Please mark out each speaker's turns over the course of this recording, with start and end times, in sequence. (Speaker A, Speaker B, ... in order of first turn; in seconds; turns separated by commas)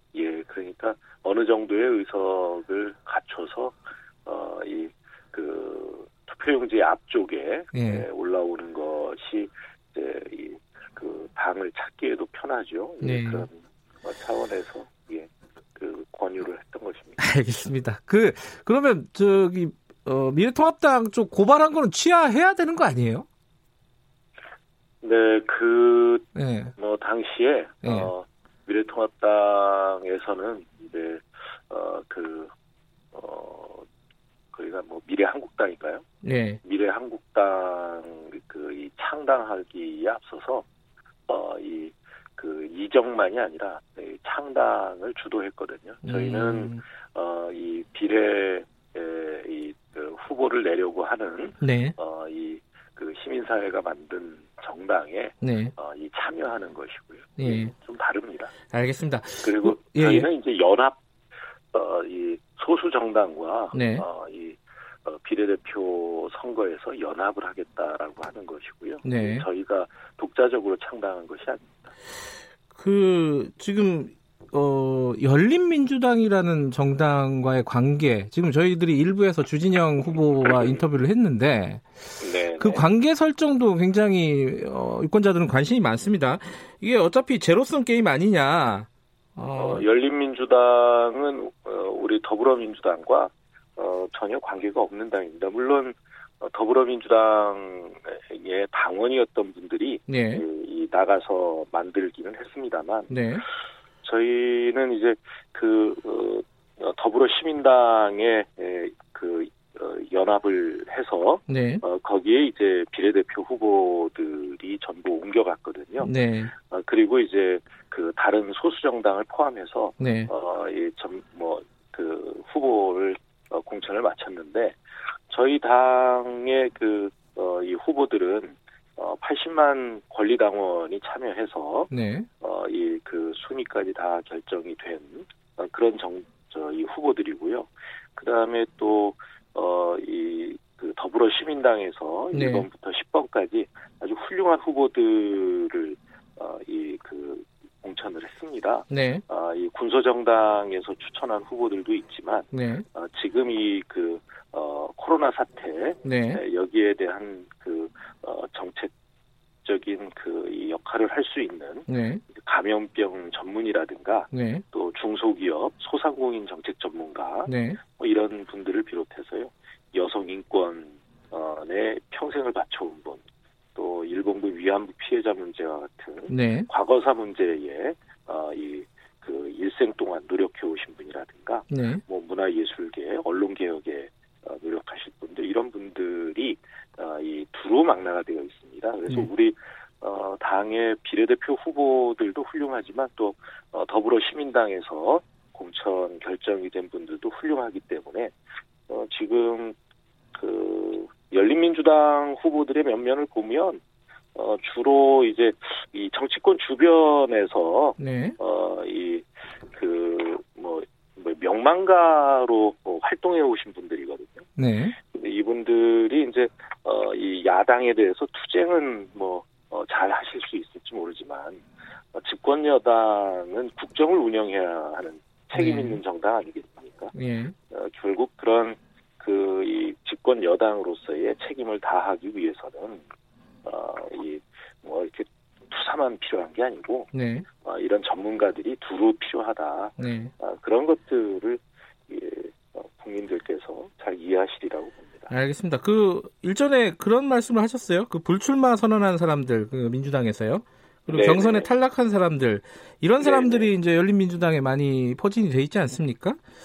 Speaker A: 0.1-17.2, Speaker B: 7.7-8.1, Speaker B: 13.0-13.5, Speaker B: 17.2-23.3, Speaker A: 25.0-26.3, Speaker B: 26.4-26.8, Speaker A: 26.8-32.5, Speaker B: 27.8-28.1, Speaker A: 33.1-33.9, Speaker A: 34.5-36.0, Speaker B: 36.2-36.6, Speaker A: 36.6-40.7, Speaker A: 41.3-58.5, Speaker B: 46.0-46.8, Speaker B: 51.6-52.0, Speaker B: 55.4-55.7, Speaker B: 57.4-57.7, Speaker B: 58.7-60.3, Speaker A: 59.4-61.0, Speaker A: 61.7-71.8, Speaker B: 63.7-64.0, Speaker B: 69.0-69.5, Speaker B: 72.8-81.8, Speaker A: 80.5-80.8, Speaker A: 82.2-82.9, Speaker B: 82.6-89.8, Speaker A: 89.6-103.2, Speaker B: 100.1-100.4, Speaker B: 103.1-103.4, Speaker A: 104.0-124.8, Speaker B: 111.5-111.8, Speaker B: 116.0-116.5, Speaker B: 120.0-120.3, Speaker A: 125.3-158.9, Speaker B: 131.9-132.3, Speaker B: 142.3-142.7, Speaker B: 148.9-149.2, Speaker B: 152.5-152.8, Speaker B: 156.0-156.4, Speaker A: 159.6-173.2, Speaker B: 161.9-162.2, Speaker B: 164.3-164.6, Speaker B: 167.5-167.8, Speaker A: 173.8-198.3, Speaker B: 176.3-176.7, Speaker B: 181.7-182.0, Speaker A: 198.9-199.8, Speaker A: 200.3-203.8, Speaker A: 204.3-227.2, Speaker B: 208.0-208.4, Speaker B: 214.6-214.9, Speaker B: 225.6-226.0, Speaker B: 227.1-227.5, Speaker A: 227.7-233.0, Speaker A: 233.6-237.1, Speaker B: 237.1-237.5, Speaker A: 237.6-245.3, Speaker B: 240.0-240.3, Speaker B: 245.3-256.4, Speaker A: 251.1-251.7, Speaker A: 253.2-253.7